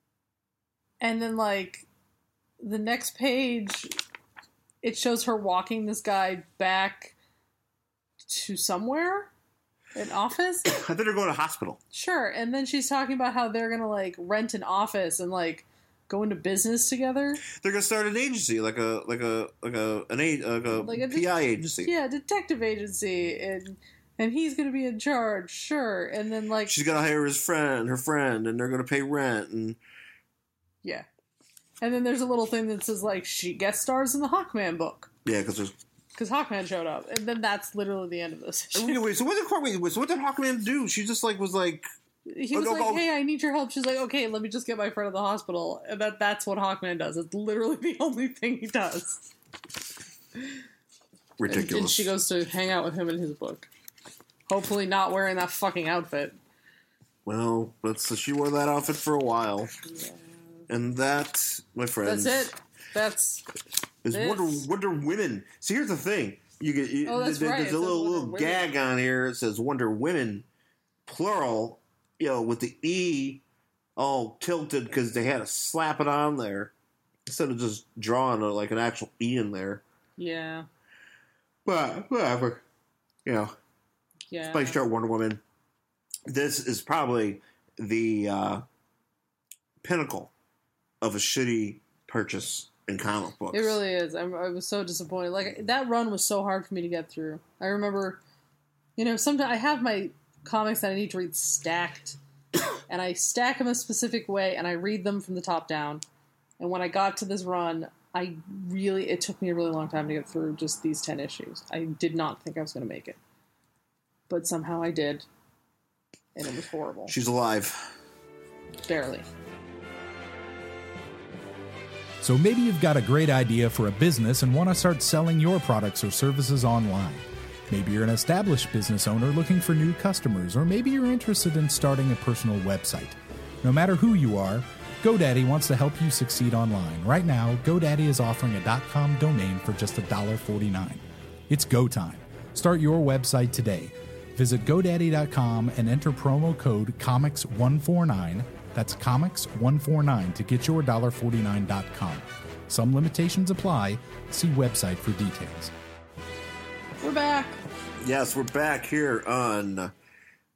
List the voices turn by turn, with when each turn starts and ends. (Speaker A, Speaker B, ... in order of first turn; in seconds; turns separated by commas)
Speaker A: 1.0-1.9, Speaker A: 2.6-4.0, Speaker A: 4.8-7.2, Speaker A: 8.3-9.3, Speaker A: 9.9-10.7, Speaker B: 10.7-11.8, Speaker A: 11.9-17.4, Speaker B: 17.4-21.9, Speaker A: 20.8-21.3, Speaker A: 21.8-26.8, Speaker B: 26.7-29.8, Speaker A: 31.8-35.1, Speaker B: 35.2-35.8, Speaker A: 36.1-39.0, Speaker B: 38.7-41.9, Speaker A: 42.3-49.3, Speaker B: 42.5-43.1, Speaker B: 51.4-52.1, Speaker A: 51.5-53.7, Speaker A: 54.5-56.4, Speaker B: 57.2-59.7, Speaker A: 59.9-60.2, Speaker B: 60.7-62.5, Speaker A: 62.0-63.5, Speaker B: 64.0-70.5, Speaker A: 64.1-64.7, Speaker A: 67.0-68.7, Speaker B: 71.1-73.4, Speaker B: 74.0-76.7, Speaker B: 77.3-79.8, Speaker A: 80.2-80.7, Speaker B: 81.7-82.6, Speaker B: 83.2-83.5, Speaker A: 84.3-84.8, Speaker B: 84.5-85.4, Speaker B: 86.3-88.6, Speaker B: 89.8-90.3, Speaker B: 91.0-93.8, Speaker A: 93.5-98.2, Speaker A: 99.0-102.2, Speaker A: 102.9-106.0, Speaker A: 106.6-113.2, Speaker A: 114.3-115.2, Speaker A: 116.3-117.1, Speaker B: 117.1-117.9, Speaker A: 118.8-119.3, Speaker C: 122.2-155.7, Speaker A: 157.0-157.6, Speaker B: 158.0-159.9